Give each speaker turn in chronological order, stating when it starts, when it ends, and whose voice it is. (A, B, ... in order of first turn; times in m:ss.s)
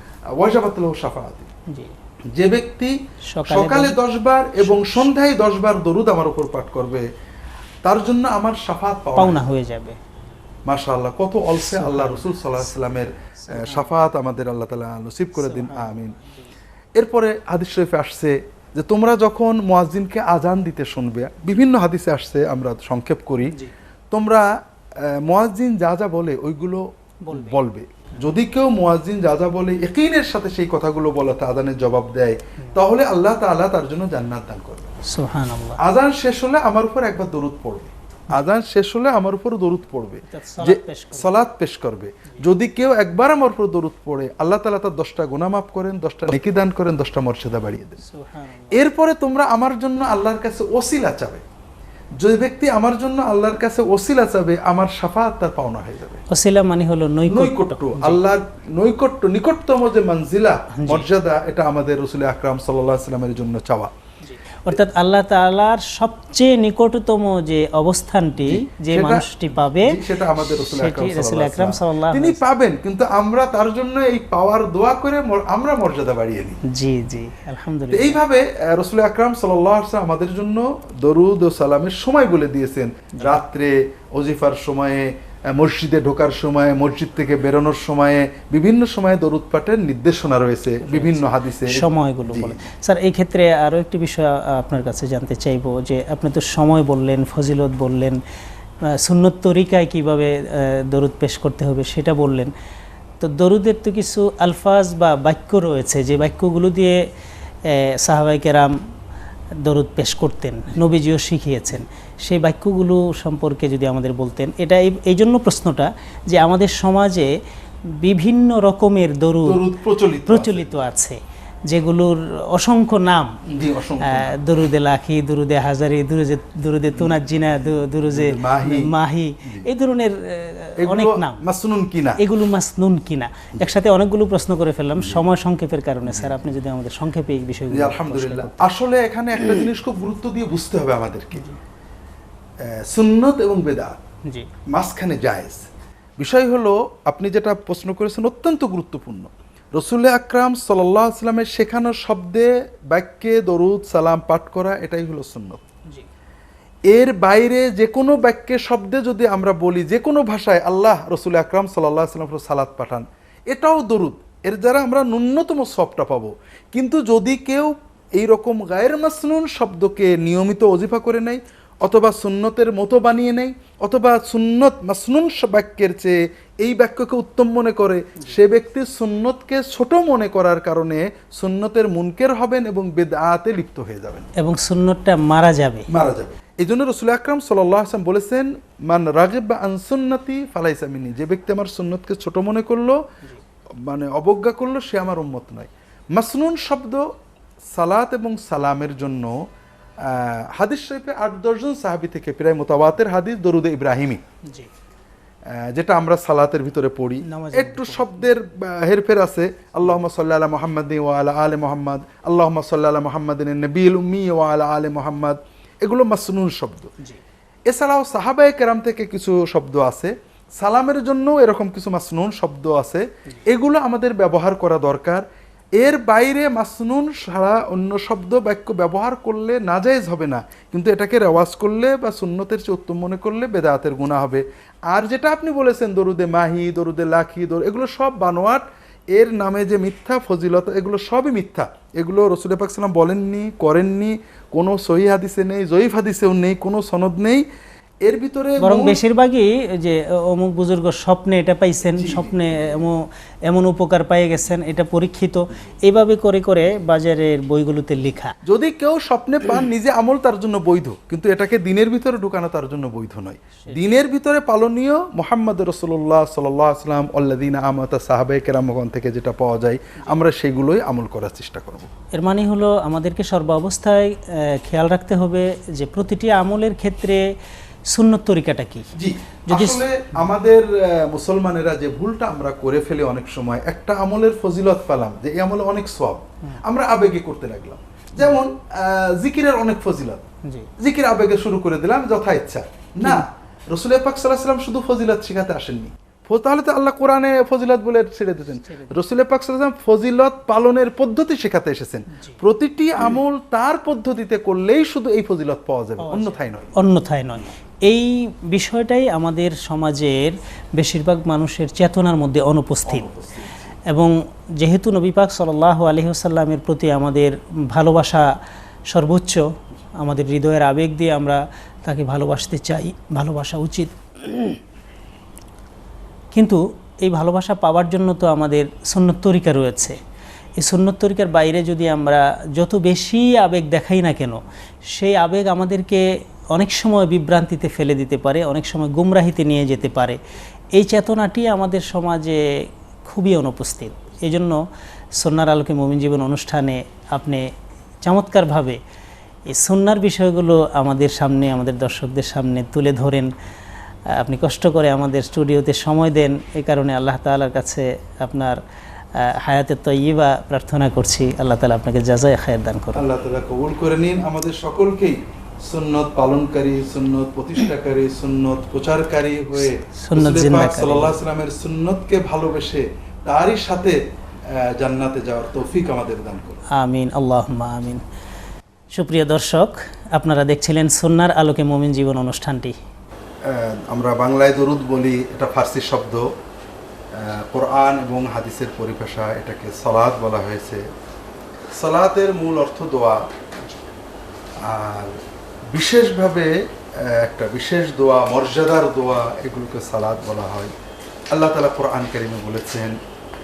0:00.4-0:01.5 A
0:01.7-0:01.9 B
0:02.3-0:03.0 A
0:03.3-0:04.0 B
0:03.5-0:07.1 A
0:04.6-0:05.1 B
0:07.8-0:09.5 A
0:09.2-0:10.0 B
0:10.7-0:16.2 A
0:11.6-0:13.9 B
0:15.4-0:16.5 B
0:17.0-0:23.5 A
0:24.1-0:24.5 A
0:25.0-0:34.9 A
0:27.2-0:27.6 B
0:35.1-0:35.8 B
0:35.8-0:48.0 A
0:40.3-0:41.3 B
0:48.0-0:48.8 B
0:48.7-0:51.4 A
0:52.2-0:56.2 A
0:56.3-0:58.2 B
0:57.3-1:03.9 A
1:00.8-1:01.1 B
1:04.2-1:12.4 B
1:08.4-1:16.6 A
1:16.6-1:18.2 B
1:17.9-1:32.6 A
1:30.8-1:38.2 B
1:38.9-1:42.5 B
1:43.2-1:47.0 B
1:47.7-1:48.8 B
1:49.6-1:57.3 B
1:58.0-1:59.6 B
1:59.4-2:00.9 A
2:00.3-2:03.4 B
2:03.5-2:04.3 A
2:04.0-2:11.5 B
2:06.9-2:08.9 A
2:10.8-2:12.2 A
2:12.2-2:18.6 B
2:16.1-2:16.3 A
2:17.7-2:21.5 A
2:22.6-2:24.0 A
2:24.7-2:25.7 A
2:26.2-2:35.6 A
2:36.9-3:04.3 A
3:04.4-3:05.9 B
3:05.9-3:13.0 A
3:13.8-3:17.1 A
3:17.7-3:19.4 A
3:20.0-3:24.2 A
3:24.4-3:24.7 B
3:25.5-3:36.9 A
3:27.2-3:28.3 B
3:37.7-3:45.2 A
3:45.8-4:07.4 A
4:08.0-4:09.0 A
4:08.6-4:18.3 B
4:12.0-4:12.4 A
4:18.5-4:31.9 A
4:23.6-4:24.0 B
4:32.2-4:37.2 B
4:37.9-4:38.9 B
4:39.0-4:50.2 A
4:39.5-4:39.8 B
4:50.5-4:50.7 B
4:50.8-5:06.8 A
4:58.6-4:59.0 B
5:02.1-5:02.4 B
5:06.0-5:13.1 B
5:12.9-5:13.7 A
5:13.9-5:18.3 B
5:18.9-5:19.5 B
5:20.0-5:24.6 B
5:26.3-5:30.0 B
5:30.6-5:34.4 B
5:34.9-5:40.2 B
5:40.7-5:42.4 B
5:43.0-5:44.6 B
5:45.2-5:47.4 B
5:48.0-5:48.8 B
5:49.5-5:53.3 B
5:54.2-5:58.6 B
5:59.2-6:03.0 B
6:03.0-6:14.0 A
6:09.6-6:11.2 B
6:14.6-6:16.6 A
6:16.8-6:18.0 B
6:18.9-6:22.7 B
6:23.5-6:26.2 A
6:27.2-6:30.8 A
6:31.8-6:33.2 A
6:34.6-6:35.2 A
6:35.7-6:40.7 A
6:41.3-6:43.0 A